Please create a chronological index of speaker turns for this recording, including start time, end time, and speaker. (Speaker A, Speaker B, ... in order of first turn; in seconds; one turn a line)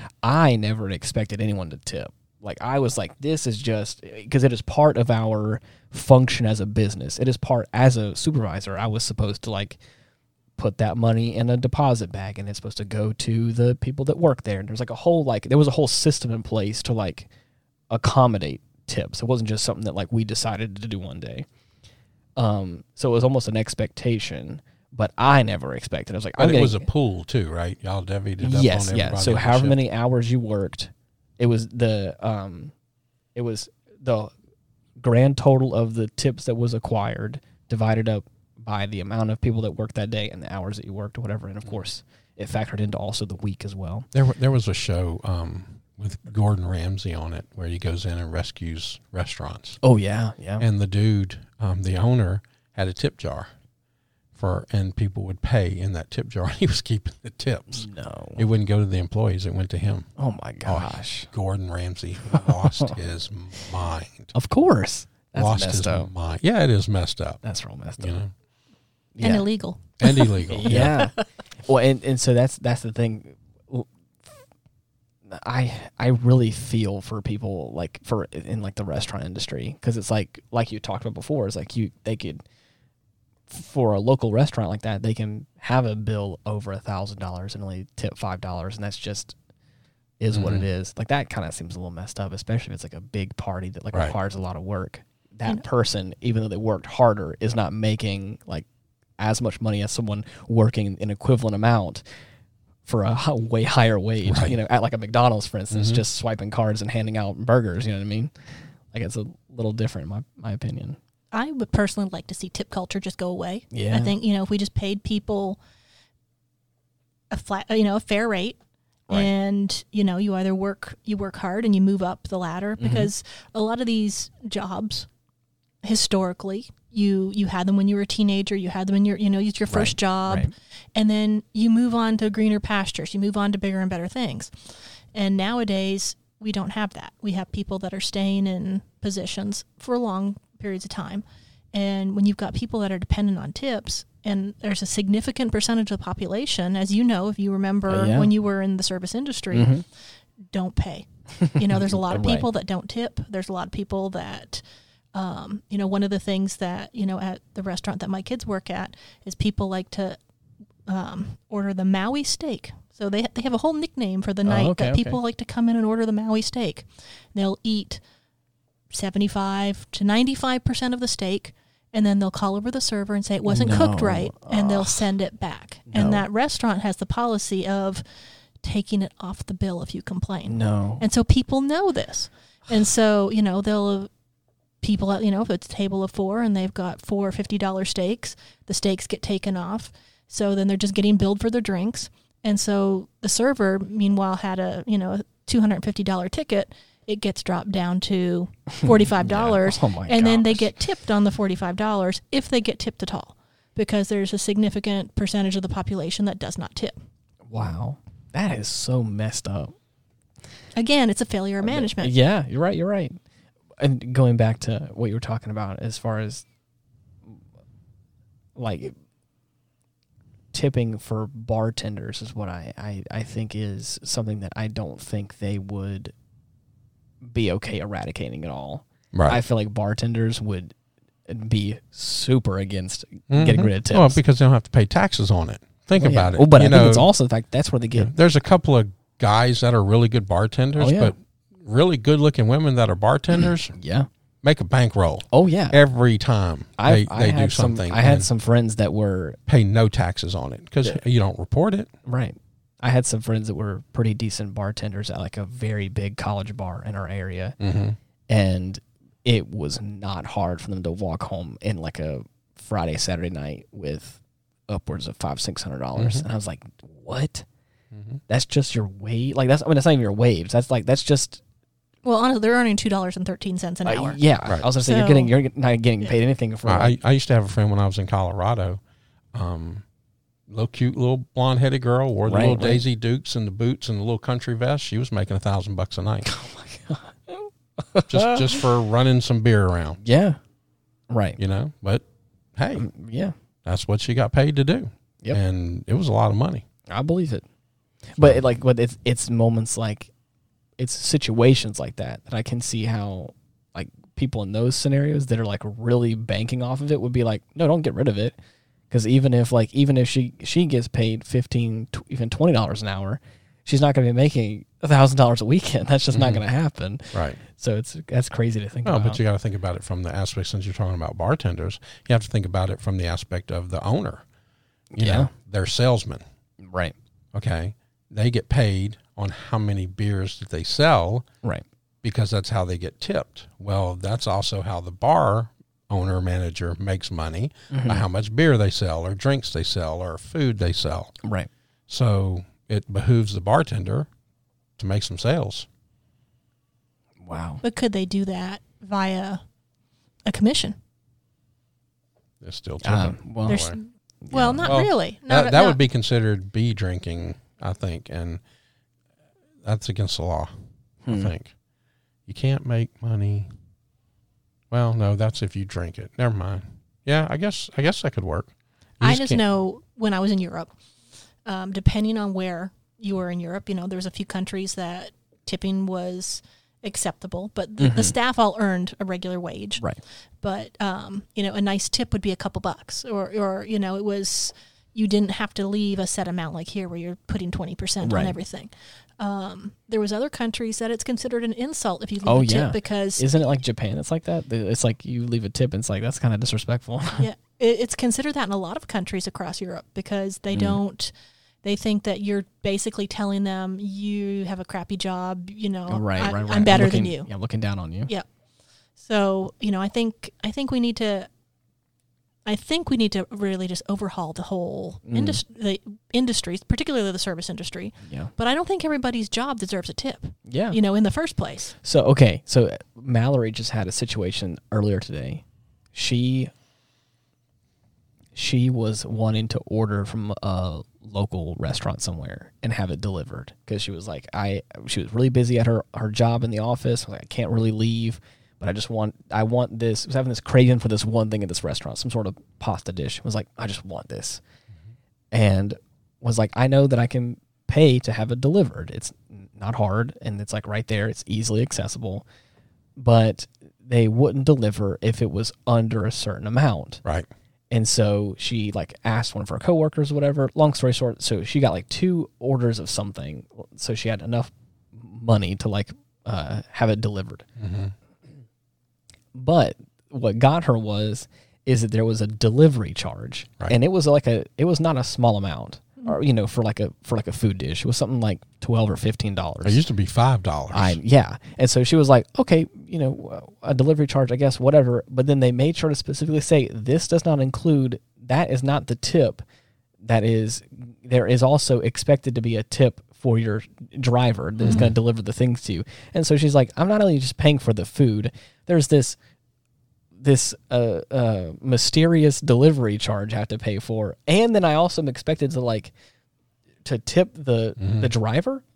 Speaker A: 0.2-9.8
Speaker A: 10.6-17.3
Speaker A: 17.9-21.5
Speaker A: 22.4-26.9
Speaker B: 26.4-29.8
Speaker A: 28.4-32.7
Speaker A: 33.4-34.3
Speaker A: 35.0-44.1
Speaker B: 44.1-49.8
Speaker A: 49.8-50.7
Speaker B: 50.6-53.5
Speaker B: 54.4-60.1
Speaker A: 57.7-58.4
Speaker A: 60.2-61.3
Speaker B: 60.6-64.3
Speaker A: 62.4-62.9
Speaker A: 64.3-66.1
Speaker B: 65.3-67.4
Speaker A: 67.4-68.2
Speaker B: 68.0-68.3
Speaker A: 69.2-69.5
Speaker C: 69.2-71.1
Speaker B: 70.0-71.0
Speaker A: 70.5-71.2
Speaker A: 71.7-73.9
Speaker A: 75.3-82.4
Speaker A: 83.5-89.3
Speaker A: 90.2-98.7
Speaker B: 90.3-90.7
Speaker A: 99.2-102.0
Speaker A: 102.8-108.3
Speaker B: 104.3-104.6
Speaker B: 105.7-106.0
Speaker A: 108.9-111.0
Speaker C: 111.3-115.6
Speaker A: 113.7-114.1
Speaker C: 117.3-118.6
Speaker C: 119.1-125.1
Speaker A: 122.8-123.1
Speaker C: 125.8-134.5
Speaker A: 129.7-130.5
Speaker C: 135.1-149.7
Speaker A: 147.9-148.3
Speaker A: 149.5-149.8
Speaker C: 150.5-154.6
Speaker A: 151.4-152.5
Speaker C: 155.1-160.2
Speaker C: 160.9-168.0
Speaker A: 164.4-165.2
Speaker C: 168.9-178.0
Speaker A: 173.5-175.1
Speaker A: 175.9-176.3
Speaker C: 178.6-184.1
Speaker A: 180.5-181.1
Speaker C: 184.8-206.9
Speaker A: 198.8-200.7
Speaker A: 207.5-209.7
Speaker C: 210.8-212.1
Speaker A: 211.6-213.2
Speaker A: 213.8-216.4
Speaker A: 218.6-218.9
Speaker A: 220.5-226.1
Speaker A: 227.2-230.7
Speaker B: 229.1-229.4
Speaker A: 231.3-234.2
Speaker B: 233.3-237.1
Speaker A: 236.0-238.1
Speaker B: 238.0-243.7
Speaker A: 240.8-241.1
Speaker A: 243.7-244.1
Speaker B: 244.4-248.3
Speaker A: 245.3-245.8
Speaker A: 246.8-249.4
Speaker B: 249.5-251.9
Speaker A: 252.1-257.6
Speaker B: 257.6-258.0
Speaker A: 258.3-267.5
Speaker B: 266.0-266.2
Speaker B: 267.9-268.2
Speaker A: 268.3-271.4
Speaker C: 272.0-274.2
Speaker A: 273.9-277.0
Speaker C: 274.8-275.3
Speaker B: 276.7-278.8
Speaker B: 279.3-279.8
Speaker B: 280.5-286.3
Speaker A: 282.3-282.8
Speaker A: 286.2-288.6
Speaker B: 288.1-290.0
Speaker A: 290.0-290.4
Speaker A: 291.1-291.4
Speaker B: 291.4-292.0
Speaker B: 292.6-292.9
Speaker A: 292.8-293.3
Speaker B: 293.6-296.6
Speaker A: 296.9-297.4
Speaker A: 298.1-300.1
Speaker A: 300.8-308.4
Speaker A: 308.9-319.2
Speaker B: 316.1-316.4
Speaker B: 317.1-317.4
Speaker B: 318.9-324.2
Speaker A: 324.9-325.3
Speaker B: 325.0-326.2
Speaker A: 326.6-326.9
Speaker B: 327.3-331.3
Speaker B: 332.0-341.1
Speaker A: 337.7-338.1
Speaker A: 341.2-341.5
Speaker B: 341.9-344.1
Speaker B: 344.8-345.7
Speaker A: 347.2-347.6
Speaker C: 347.6-349.4
Speaker C: 350.3-350.8
Speaker B: 352.4-353.8
Speaker A: 352.8-353.7
Speaker C: 353.5-355.8
Speaker A: 354.3-354.8
Speaker B: 354.7-358.4
Speaker B: 359.6-360.5
Speaker A: 361.1-361.3
Speaker B: 361.1-361.5
Speaker B: 362.3-363.5
Speaker B: 364.7-369.4
Speaker C: 369.0-370.7
Speaker C: 371.5-379.8
Speaker A: 377.8-378.1
Speaker C: 380.4-393.2
Speaker A: 388.0-388.4
Speaker A: 392.2-397.3
Speaker C: 397.2-401.1
Speaker A: 400.5-400.8
Speaker C: 401.6-407.3
Speaker A: 405.9-408.1
Speaker C: 409.0-411.3
Speaker C: 412.5-421.8
Speaker A: 415.1-415.4
Speaker A: 418.0-418.3
Speaker A: 420.5-420.8
Speaker A: 421.8-425.4
Speaker A: 425.9-426.5
Speaker A: 428.4-444.4
Speaker A: 445.3-452.3
Speaker A: 453.0-457.0
Speaker A: 457.7-467.5
Speaker B: 467.6-467.9
Speaker A: 469.3-479.8
Speaker B: 479.6-481.0
Speaker A: 480.7-489.4
Speaker A: 490.0-499.2
Speaker B: 494.7-494.9
Speaker A: 500.2-505.9
Speaker A: 506.9-508.6
Speaker B: 507.8-508.1